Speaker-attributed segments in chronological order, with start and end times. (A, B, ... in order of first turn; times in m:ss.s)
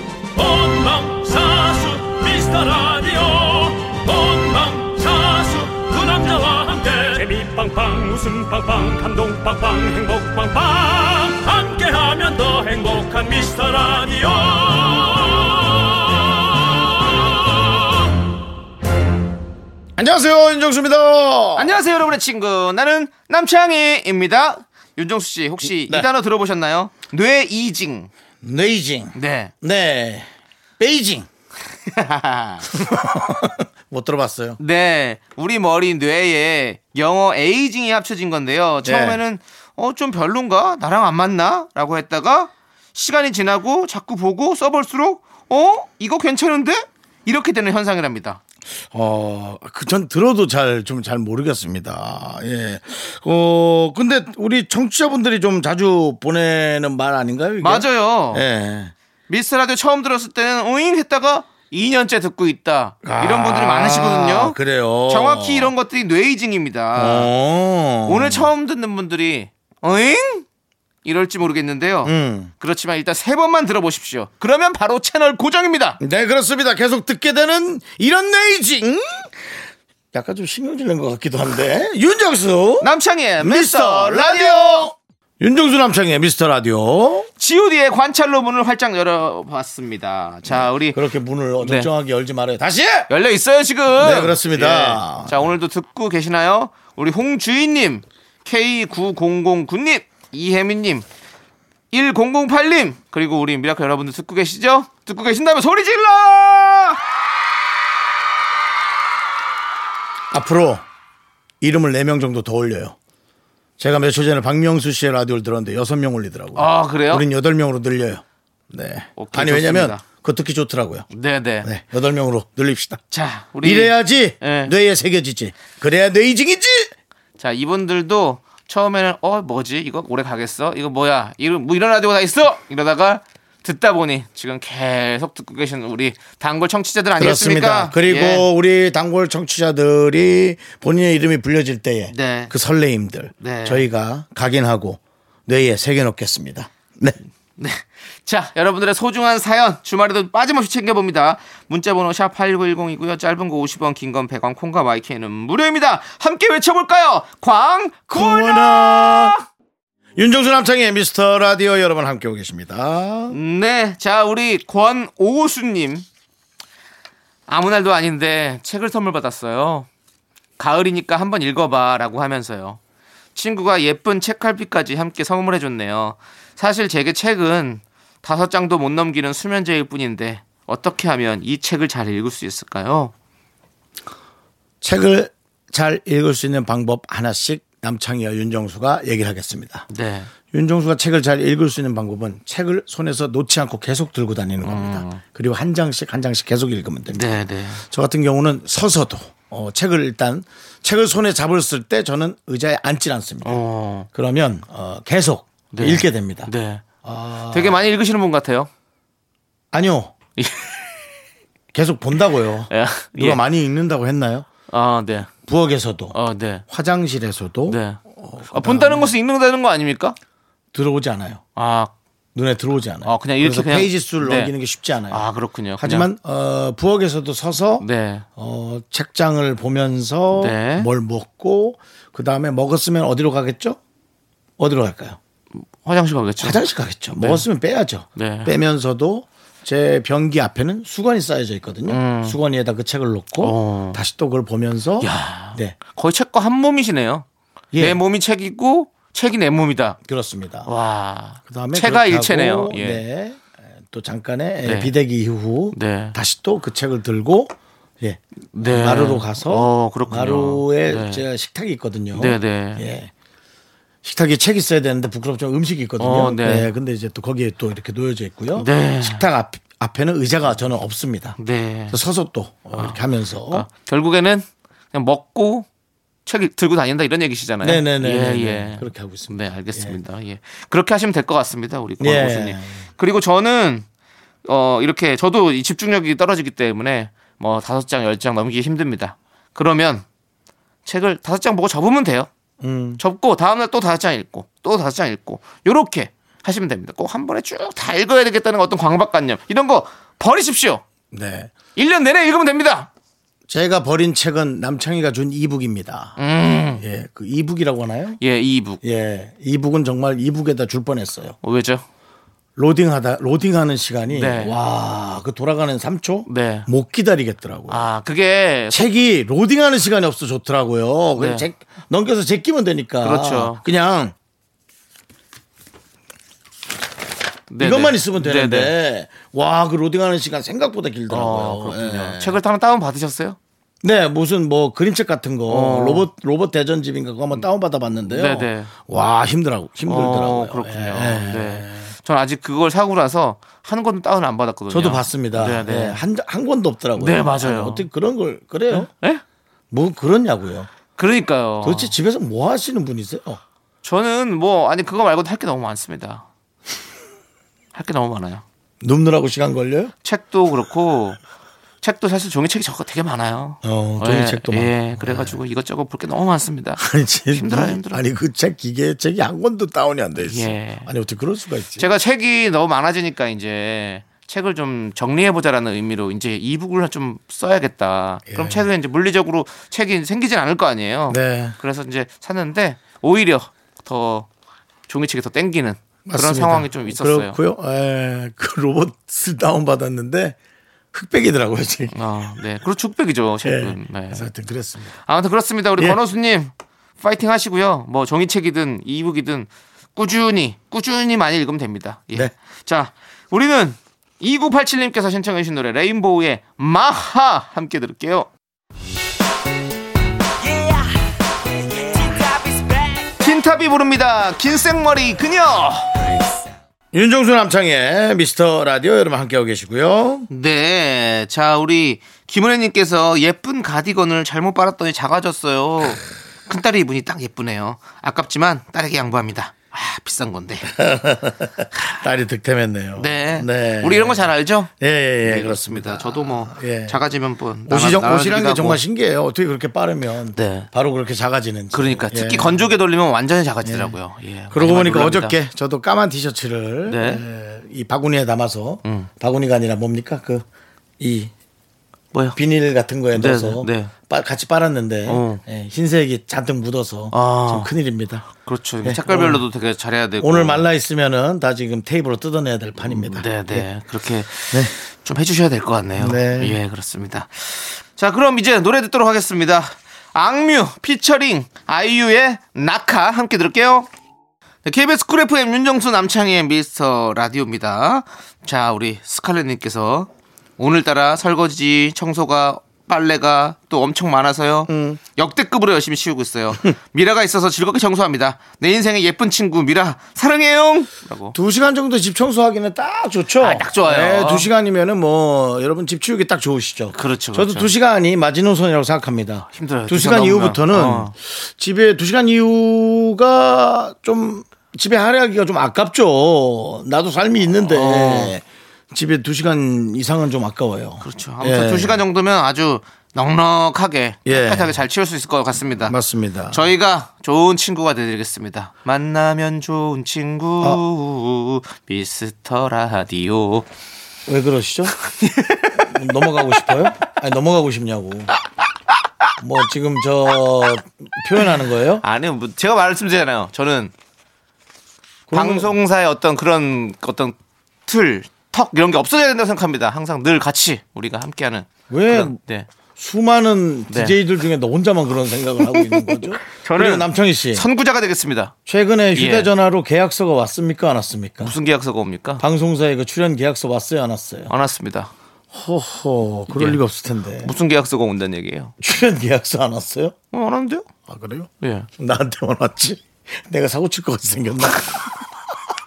0:00.3-0:17.8 A
0:20.0-0:21.8 B
0:21.6-0:28.1 C
0:25.8-0:26.1 B
0:28.4-0:30.3 B
0:29.1-0:29.5 C
0:30.8-0:31.3 B
0:31.9-0:32.7 C
0:32.7-0:34.6 B
0:34.6-0:48.4 C
0:38.8-0:39.2 B
0:48.9-0:58.9 B
0:57.6-0:58.4 C
0:59.3-1:04.6 C
1:03.0-1:05.7 B
1:05.1-1:07.3 C
1:06.9-1:08.5 B
1:08.0-1:10.4 C
1:11.0-1:16.0 C
1:12.0-1:12.5 B
1:16.0-1:19.4 B
1:20.1-1:22.9 B
1:22.8-1:24.9 C
1:23.4-1:27.3 B
1:27.4-1:31.0 C
1:30.5-1:33.1 B
1:31.6-1:31.9 C
1:33.1-1:41.0 C
1:33.9-1:35.5 B
1:41.9-1:47.0 C
1:50.3-1:50.8 B
1:51.6-1:52.9 B
1:53.8-2:01.1 B
1:56.5-1:57.2 C
1:59.2-2:00.0 C
2:01.1-2:01.7 C
2:01.6-2:03.0 B
2:03.1-2:04.7 C
2:03.6-2:06.9 B
2:07.4-2:18.5 C
2:17.2-2:27.2 B
2:22.1-2:22.5 C
2:23.4-2:23.8 C
2:27.6-2:39.4 C
2:38.1-2:39.3 B
2:40.2-2:43.4 B
2:43.3-2:46.0 C
2:47.5-2:49.9 C
2:50.6-2:52.8 C
2:53.3-3:03.1 C
3:04.8-3:09.9 B
3:09.9-3:10.3 C
3:10.5-3:17.2 B
3:14.6-3:15.2 C
3:17.1-3:17.8 C
3:17.8-3:23.6 B
3:23.4-3:24.1 C
3:24.1-3:26.5 B
3:25.7-3:26.8 C
3:27.0-3:27.8 B
3:27.5-3:28.7 C
3:29.7-3:30.1 B
3:30.4-3:30.8 C
3:31.7-3:34.4 B
3:32.7-3:33.4 C
3:34.7-3:35.3 C
3:35.4-3:36.1 B
3:36.1-3:36.6 C
3:36.7-3:39.1 B
3:37.7-3:40.2 C
3:40.7-3:41.4 B
3:41.6-3:41.9 C
3:42.3-3:45.2 B
3:43.0-3:44.5 C
3:45.1-3:46.1 C
3:45.8-3:47.8 B
3:47.8-3:48.2 C
3:48.4-3:53.8 B
3:50.4-3:50.9 C
3:54.6-3:55.2 B
3:55.6-3:56.6 C
3:56.4-4:05.8 B
3:57.2-3:57.4 C
3:58.2-3:58.5 C
4:01.9-4:02.4 C
4:03.4-4:04.0 C
4:05.0-4:07.2 C
4:07.7-4:08.0 B
4:07.8-4:10.0 C
4:10.0-4:10.7 B
4:10.6-4:13.0 C
4:11.5-4:23.1 B
4:14.6-4:14.9 C
4:15.7-4:16.2 C
4:18.5-4:21.2 C
4:22.1-4:22.8 C
4:24.0-4:31.4 B
4:26.0-4:26.7 C
4:28.6-4:29.2 C
4:31.4-4:32.0 C
4:31.9-4:33.6 B
4:32.7-4:35.7 C
4:36.2-4:43.8 C
4:37.6-4:40.0 B
4:42.0-4:42.8 B
4:44.4-4:50.0 C
4:50.8-4:52.3 C
4:52.6-4:53.0 B
4:53.0-5:00.8 C
5:01.1-5:01.5 B
5:01.8-5:02.9 C
5:03.5-5:06.2 B
5:06.2-5:06.8 C
5:06.8-5:08.2 B
5:08.2-5:08.8 C
5:08.8-5:11.4 B
5:11.4-5:11.8 C
5:12.6-5:17.9 B
5:14.1-5:14.6 C
5:16.3-5:16.7 C
5:17.7-5:18.9 C
5:18.7-5:24.1 B
5:21.2-5:21.5 C
5:23.0-5:23.6 C
5:27.5-5:28.7 C
5:27.6-5:32.4 B
5:31.1-5:33.4 C
5:33.8-5:41.9 B
5:35.5-5:36.1 C
5:38.1-5:38.7 C
5:39.9-5:46.0 C
5:44.7-5:48.9 B
5:47.0-5:47.9 C
5:48.7-5:49.2 C
5:49.7-5:50.7 B
5:51.0-5:51.9 C
5:51.6-5:53.4 B
5:53.8-5:56.2 C
5:57.7-5:58.4 C
5:58.8-5:59.9 B
6:00.0-6:01.2 C
6:01.8-6:08.0 C
6:03.6-6:05.4 B
6:06.8-6:11.8 B
6:10.2-6:10.9 C
6:11.8-6:24.3 C
6:18.3-6:18.7 B
6:21.1-6:21.6 B
6:24.9-6:27.4 C
6:26.0-6:30.4 B
6:30.9-6:32.0 B
6:31.9-6:34.3 C
6:33.4-6:34.9 B
6:35.0-6:48.3 C
6:53.2-6:55.9 C
6:56.9-7:00.3 B
7:00.3-7:10.7 C
7:10.7-7:17.0 B
7:13.0-7:14.7 C
7:15.2-7:18.8 C
7:17.7-7:22.7 B
7:20.4-7:20.7 C
7:21.7-7:25.4 C
7:23.6-7:23.9 B
7:24.5-7:30.4 B
7:26.8-7:27.2 C
7:31.0-7:31.3 B
7:32.3-7:38.3 B
7:33.1-7:33.9 C
7:35.0-7:35.4 C
7:37.1-7:37.7 C
7:38.3-7:40.6 C
7:38.8-7:39.4 B
7:40.2-7:43.6 B
7:42.8-7:53.9 C
7:46.0-7:46.6 B
7:54.6-8:11.4 C
8:04.7-8:05.0 B
8:11.3-8:32.0 B
8:13.4-8:14.5 C
8:16.9-8:17.7 C
8:19.5-8:21.1 C
8:27.6-8:28.4 C
8:31.0-8:36.0 C
8:34.2-8:34.7 B
8:35.8-8:36.7 B
8:36.5-8:43.7 C
8:44.3-8:44.9 B
8:45.0-8:46.8 C
8:45.8-8:48.3 B
8:49.4-8:52.0 B
8:52.0-8:53.9 C
8:55.3-8:55.7 B
8:55.3-8:57.3 C
8:57.8-9:02.7 C
9:01.9-9:02.4 B
9:03.0-9:07.6 B
9:03.9-9:04.2 C
9:05.8-9:08.5 C
9:08.6-9:11.6 B
9:09.1-9:09.5 C
9:11.4-9:12.4 C
9:12.4-9:14.5 B
9:14.5-9:15.1 C
9:15.5-9:17.5 B
9:16.5-9:16.8 C
9:17.4-9:18.7 C
9:18.8-9:20.1 B
9:20.3-9:20.8 C
9:21.1-9:25.2 B
9:21.6-9:21.9 C